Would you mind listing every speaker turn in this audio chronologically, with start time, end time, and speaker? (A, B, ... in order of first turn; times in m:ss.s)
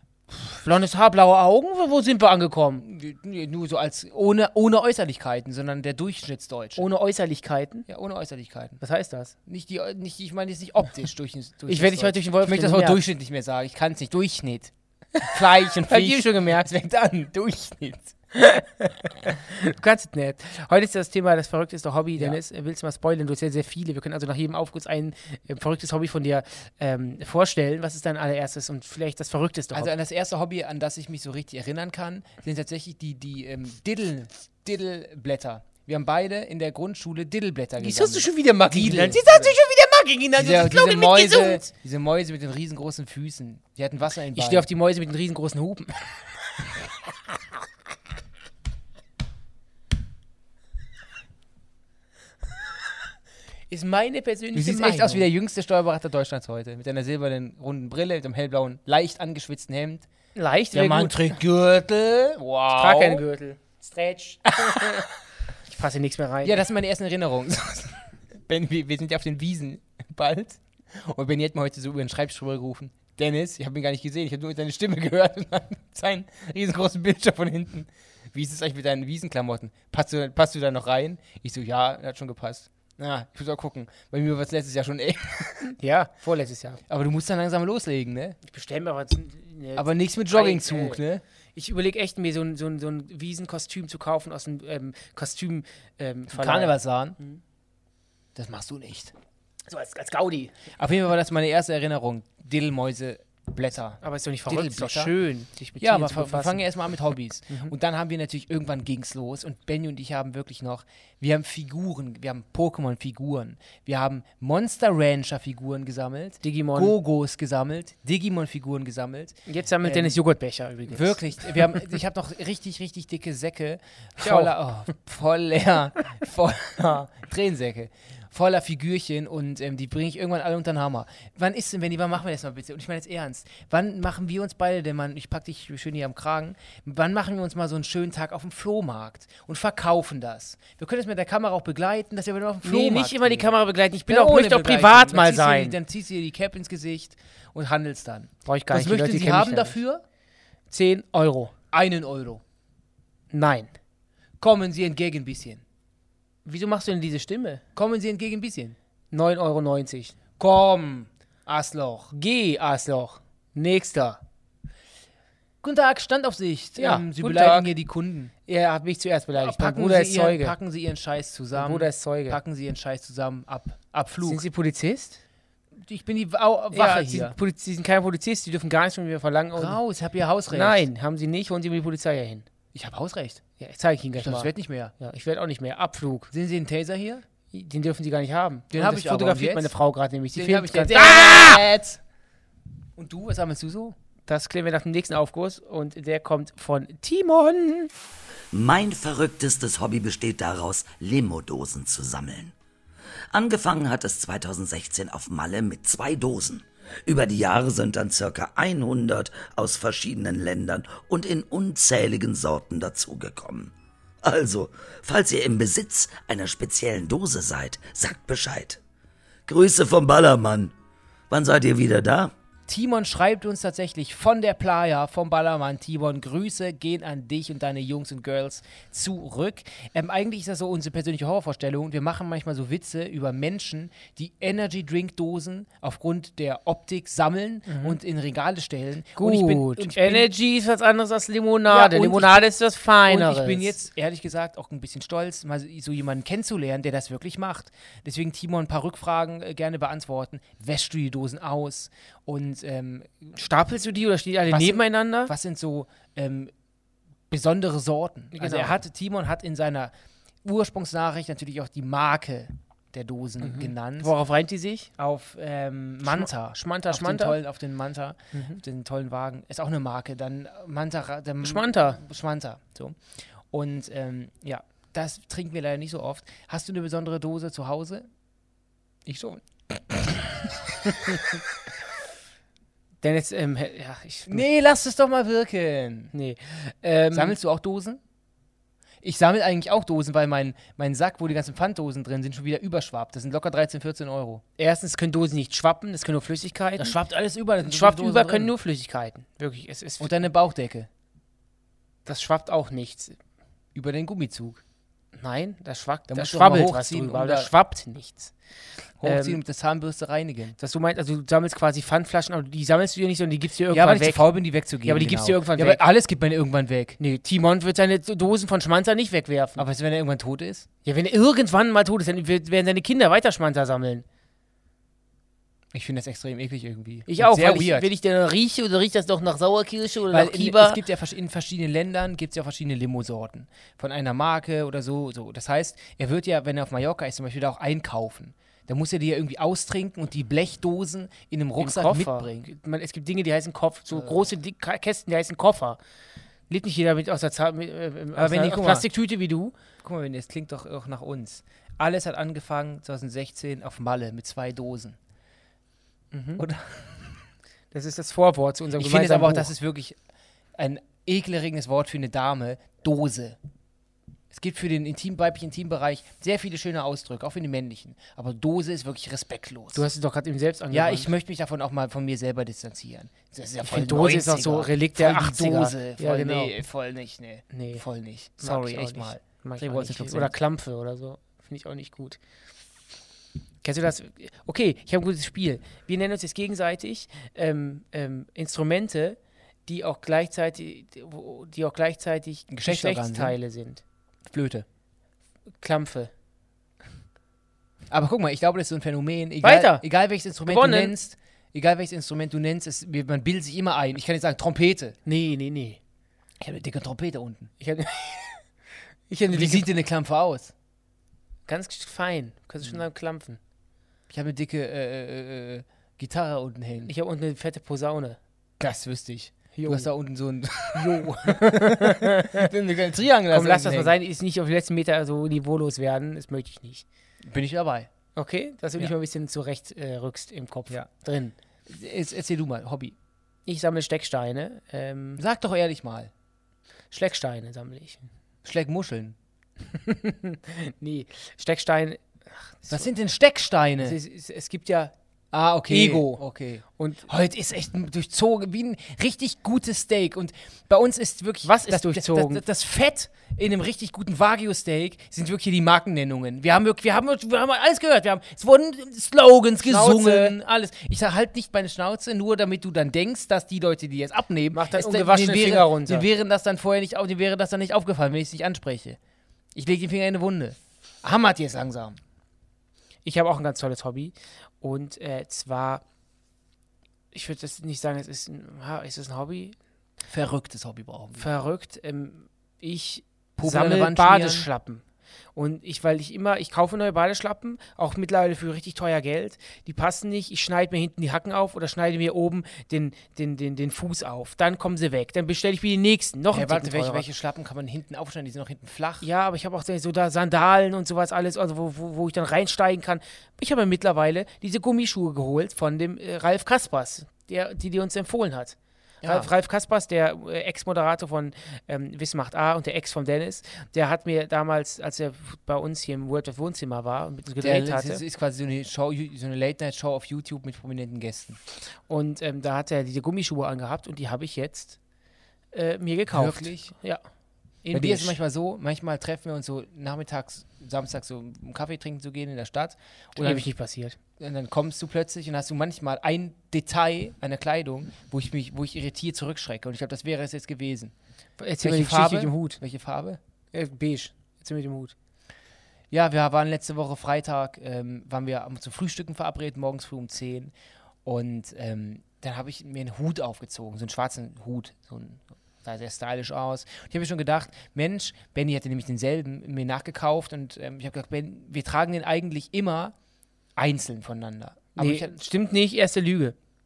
0:00.3-0:02.8 A
0:02.8-0:06.8 B
0:06.8-0:07.9 A
0:07.9-0:08.8 B
0:08.8-0:09.4 A
0:09.5-0:18.1 B
0:11.7-0:13.0 A
0:15.2-0:16.7 A
0:18.3-0:29.9 A
0:29.7-0:39.6 B
0:37.8-0:41.7 A
0:40.4-0:44.7 B
0:44.4-0:46.2 A
0:53.7-1:00.1 B
0:54.3-0:55.3 A
1:00.4-1:01.3 A
1:00.7-1:03.3 B
1:02.7-1:05.1 A
1:04.6-1:05.0 B
1:05.7-1:06.6 A
1:06.4-1:25.7 B
1:25.8-1:26.8 A
1:26.9-1:28.4 B
1:28.4-1:31.0 A
1:29.8-1:31.2 B
1:31.6-1:37.4 A
1:36.3-1:37.2 B
1:38.4-1:39.1 B
1:39.7-1:40.5 A
1:40.8-1:45.1 B
1:44.0-1:46.6 A
1:45.8-2:00.2 B
1:47.5-1:47.7 A
1:56.4-1:57.0 A
1:59.5-2:01.8 A
2:00.9-2:23.5 B
2:04.2-2:04.6 A
2:22.6-2:25.8 A
2:24.1-2:30.0 B
2:28.5-2:29.8 A
2:30.7-2:31.5 A
2:31.7-2:32.4 B
2:33.3-2:33.7 A
2:34.4-2:35.6 B
2:36.4-2:37.6 A
2:37.8-2:38.8 B
2:39.1-2:40.2 A
2:40.4-2:42.1 B
2:42.1-2:44.2 A
2:45.6-2:48.3 B
2:46.8-2:47.7 A
2:48.5-2:50.6 A
2:49.3-2:54.4 B
2:51.6-2:52.4 A
2:54.2-2:55.2 A
2:55.8-2:57.4 B
2:56.7-2:59.8 A
2:59.6-3:00.8 B
3:00.5-3:02.5 A
3:02.7-3:03.4 B
3:03.6-3:06.3 A
3:04.2-3:04.9 B
3:06.3-3:07.2 B
3:07.5-3:11.6 A
3:08.7-3:09.7 B
3:10.3-3:12.0 B
3:13.0-3:14.0 B
3:14.3-3:17.9 A
3:18.5-3:22.5 C
3:23.3-3:38.8 C
3:39.5-3:40.7 C
3:41.3-3:42.3 C
3:42.7-4:00.3 B
3:57.7-3:58.0 A
3:59.2-4:03.7 A
4:01.7-4:02.5 B
4:03.1-4:13.3 B
4:13.4-4:15.3 A
4:14.5-4:16.5 B
4:17.3-4:19.9 B
4:18.3-4:18.8 A
4:20.4-4:24.1 B
4:23.4-4:24.9 A
4:25.0-4:33.0 B
4:26.0-4:27.4 A
4:28.3-4:28.6 A
4:31.4-4:32.0 A
4:33.5-4:38.1 B
4:39.1-4:41.4 B
4:43.0-4:44.5 A
4:44.3-4:46.1 B
4:46.1-4:47.4 A
4:47.1-4:48.0 B
4:49.0-4:54.4 B
4:54.6-4:57.0 A
4:56.8-4:58.5 B
4:57.6-5:00.2 A
5:00.0-5:00.9 B
5:02.0-5:03.2 A
5:03.7-5:04.6 B
5:05.2-5:08.3 A
5:06.1-5:07.5 B
5:09.0-5:10.6 B
5:09.0-5:09.4 A
5:10.6-5:14.3 A
5:13.7-5:17.0 B
5:14.8-5:15.8 A
5:17.0-5:19.7 A
5:19.6-5:20.7 B
5:20.8-5:24.0 A
5:25.7-5:27.9 B
5:27.1-5:30.8 A
5:30.1-5:42.5 B
5:41.6-5:45.8 A
5:43.9-5:44.3 B
5:46.5-5:49.5 A
5:48.2-5:48.9 B
5:49.8-5:55.0 B
5:56.1-5:56.4 A
5:56.4-5:56.9 B
5:57.7-5:59.5 A
5:58.8-6:00.0 B
6:00.6-6:03.4 B
6:04.3-6:09.8 B
6:09.7-6:11.1 A
6:10.7-6:20.3 B
6:13.6-6:16.5 A
6:17.5-6:17.8 A
6:18.4-6:22.2 A
6:23.6-6:33.8 A
6:32.5-6:33.4 B
6:34.3-6:34.7 B
6:35.6-6:36.1 A
6:37.9-6:45.0 B
6:39.4-6:39.8 A
6:40.5-6:40.9 A
6:45.1-6:45.8 A
6:46.4-6:47.5 B
6:47.6-6:48.4 A
6:49.1-6:49.7 A
6:49.3-6:50.5 B
6:51.5-6:53.4 A
6:54.1-6:56.9 B
6:56.8-6:58.2 A
6:58.6-7:03.9 B
6:59.6-6:59.9 A
7:00.7-7:02.5 A
7:03.3-7:06.8 A
7:07.2-7:07.9 B
7:08.2-7:11.4 A
7:11.7-7:13.0 B
7:13.5-7:15.2 A
7:15.2-7:16.1 B
7:16.9-7:18.0 A
7:18.4-7:19.2 B
7:19.7-7:22.0 A
7:22.6-7:22.9 A
7:22.7-7:24.0 B
7:23.8-7:24.9 A
7:25.3-7:49.0 B
7:25.7-7:27.1 A
7:31.4-7:32.4 A
7:39.6-7:40.4 A
7:44.5-7:46.1 A
7:49.6-7:52.0 B
7:53.0-7:55.8 A
7:57.1-7:59.6 A
8:00.1-8:01.3 B
8:01.2-8:04.8 A
8:03.4-8:04.5 B
8:05.4-8:17.0 A
8:16.3-8:19.1 B
8:19.0-8:38.0 A
8:29.0-8:29.3 B
8:37.4-8:41.4 B
8:41.9-8:44.8 A
8:45.5-8:47.0 A
8:46.1-8:46.7 B
8:47.6-8:48.2 A
8:47.7-8:53.5 B
8:53.2-8:54.0 A
8:54.2-9:00.9 B
9:01.4-9:02.6 A
9:01.6-9:03.2 B
9:03.5-9:05.0 A
9:05.9-9:10.5 B
9:11.0-9:22.9 B
9:23.6-9:25.2 B
9:24.8-9:26.4 A